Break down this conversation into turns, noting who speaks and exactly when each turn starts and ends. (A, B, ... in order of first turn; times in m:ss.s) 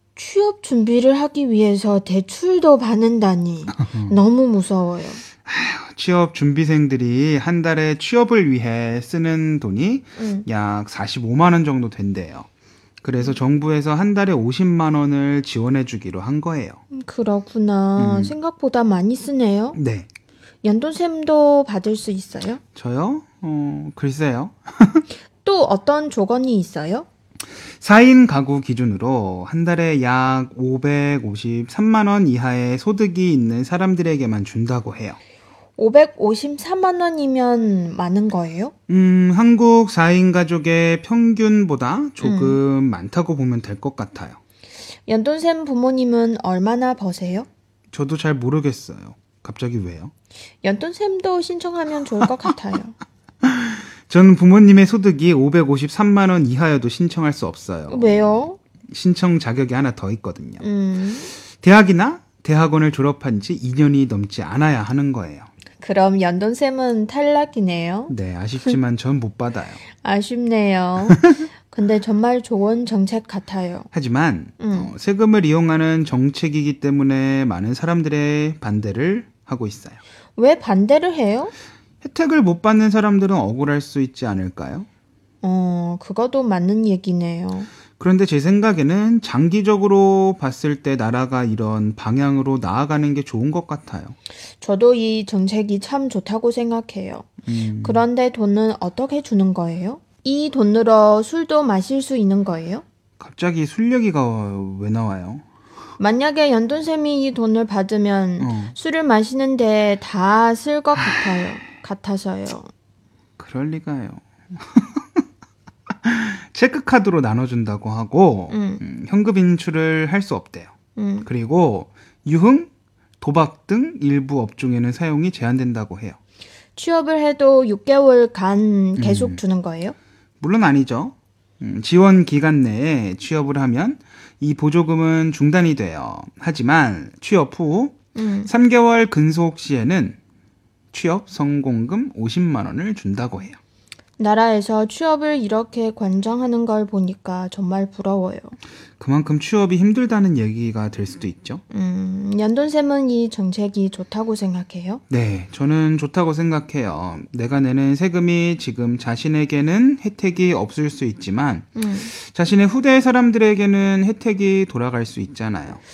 0:00.2-0:05.2 A
0:03.8-0:04.2 B
0:05.4-0:12.5 B
0:10.2-0:10.4 A
0:13.0-0:16.8 B
0:16.9-0:19.8 A
0:18.0-0:18.3 B
0:19.7-0:20.1 B
0:20.6-0:22.6 A
0:22.8-0:25.0 B
0:25.4-0:27.1 A
0:27.8-0:35.2 B
0:35.8-0:38.7 A
0:38.9-0:44.4 B
0:42.2-0:42.6 A
0:45.1-0:47.5 A
0:47.9-0:50.1 B
0:50.6-0:53.0 A
0:53.4-1:00.6 B
0:57.9-0:58.6 A
1:00.6-1:01.3 A
1:01.5-1:05.5 B
1:05.8-1:08.1 A
1:08.1-1:09.8 B
1:10.0-1:13.9 A
1:13.9-1:20.0 B
1:14.6-1:14.9 A
1:20.4-1:21.5 A
1:22.0-1:24.9 B
1:25.4-1:27.7 A
1:28.0-1:34.2 B
1:34.6-1:42.8 A
1:37.4-1:38.0 B
1:43.2-1:45.4 B
1:46.0-1:52.7 A
1:48.4-1:48.7 B
1:53.4-1:55.2 B
1:56.0-2:00.7 B
1:58.5-1:58.8 A
2:01.0-2:01.3 A
2:01.2-2:06.2 B
2:06.8-2:09.9 A
2:09.0-2:09.4 B
2:10.4-2:20.2 B
2:18.1-2:18.5 A
2:20.9-2:23.6 B
2:24.2-2:28.6 A
2:29.0-2:31.6 B
2:31.7-2:35.0 A
2:35.1-2:45.8 B
2:41.8-2:42.1 A